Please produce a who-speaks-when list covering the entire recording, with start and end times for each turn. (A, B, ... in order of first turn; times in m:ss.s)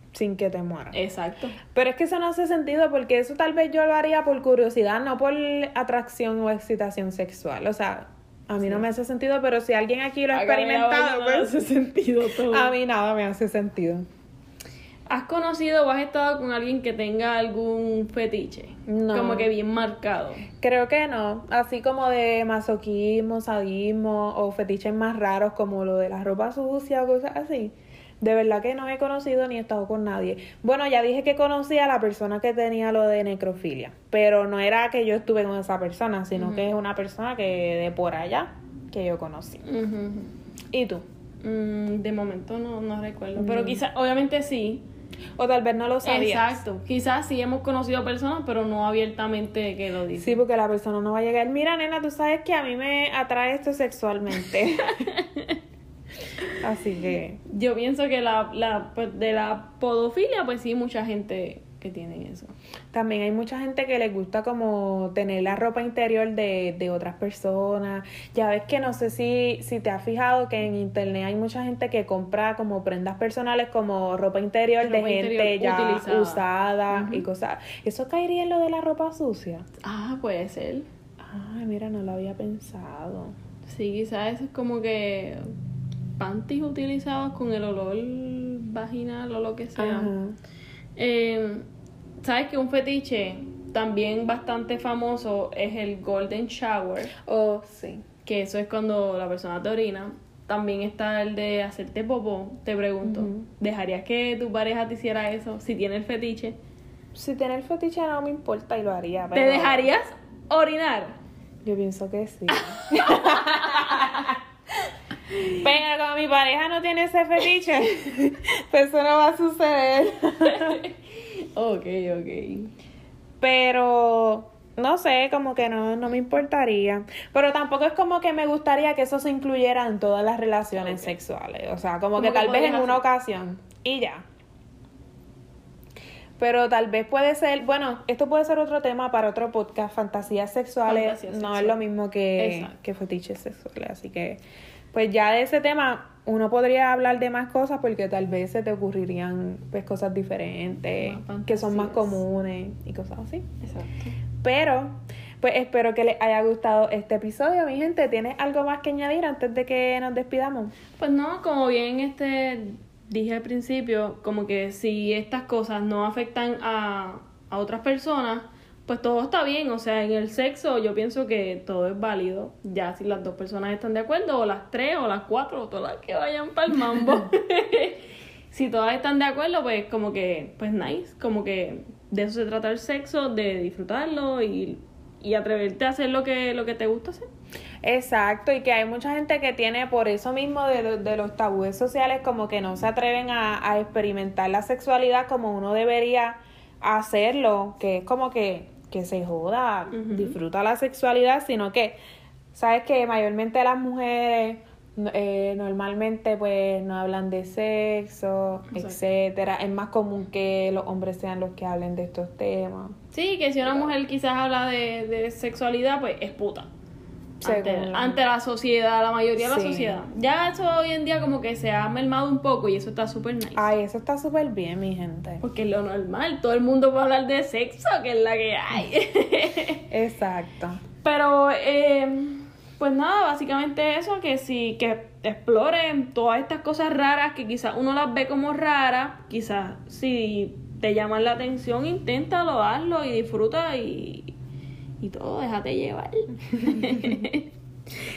0:00.1-0:01.0 A
0:00.9-0:01.6 B
0:01.7-0:11.5 A
0:10.3-0:12.7 B
0:12.4-0:14.0 A
0:15.1-0:20.5 B
0:18.9-0:19.5 A
0:20.6-0:39.6 A
0:36.4-0:36.7 B
0:39.6-0:40.3 B
0:40.7-0:41.0 A
0:41.4-0:44.8 B
0:43.4-0:43.8 A
0:45.4-0:46.6 A
0:46.0-0:50.4 B
0:50.2-0:55.0 A
0:54.8-0:55.6 B
0:56.6-0:57.4 A
0:57.5-1:02.5 B
1:02.9-1:19.6 A
1:14.8-1:17.2 B
1:19.8-1:20.9 B
1:21.2-1:23.3 A
1:23.7-1:25.5 B
1:26.2-1:30.1 B
1:29.8-1:30.4 A
1:31.0-1:31.7 B
1:32.2-1:37.1 B
1:37.2-1:38.0 A
1:38.2-1:46.6 B
1:43.0-1:43.5 A
1:47.1-1:49.9 A
1:49.3-1:51.2 B
1:51.6-1:54.4 A
1:52.5-1:54.3 B
1:55.4-2:00.8 A
2:00.4-2:01.0 B
2:01.5-2:02.7 B
2:03.4-2:14.2 A
2:10.8-2:11.1 B
2:12.1-2:13.0 B
2:16.4-2:24.4 A
2:20.9-2:21.8 B
2:22.4-2:22.7 B
2:24.9-2:33.5 A
2:31.0-2:32.2 B
2:33.6-2:34.1 B
2:34.4-2:40.7 A
2:41.0-3:07.3 B
3:07.8-3:22.0 A
3:19.9-3:20.4 B
3:22.5-3:33.0 A
3:28.7-3:29.0 B
3:33.1-3:36.7 B
3:37.4-3:38.2 A
3:37.4-3:43.7 B
3:39.4-3:40.0 A
3:43.6-3:45.4 A
3:45.4-3:49.8 B
3:49.9-3:50.8 A
3:51.0-4:04.3 B
4:05.0-4:07.5 B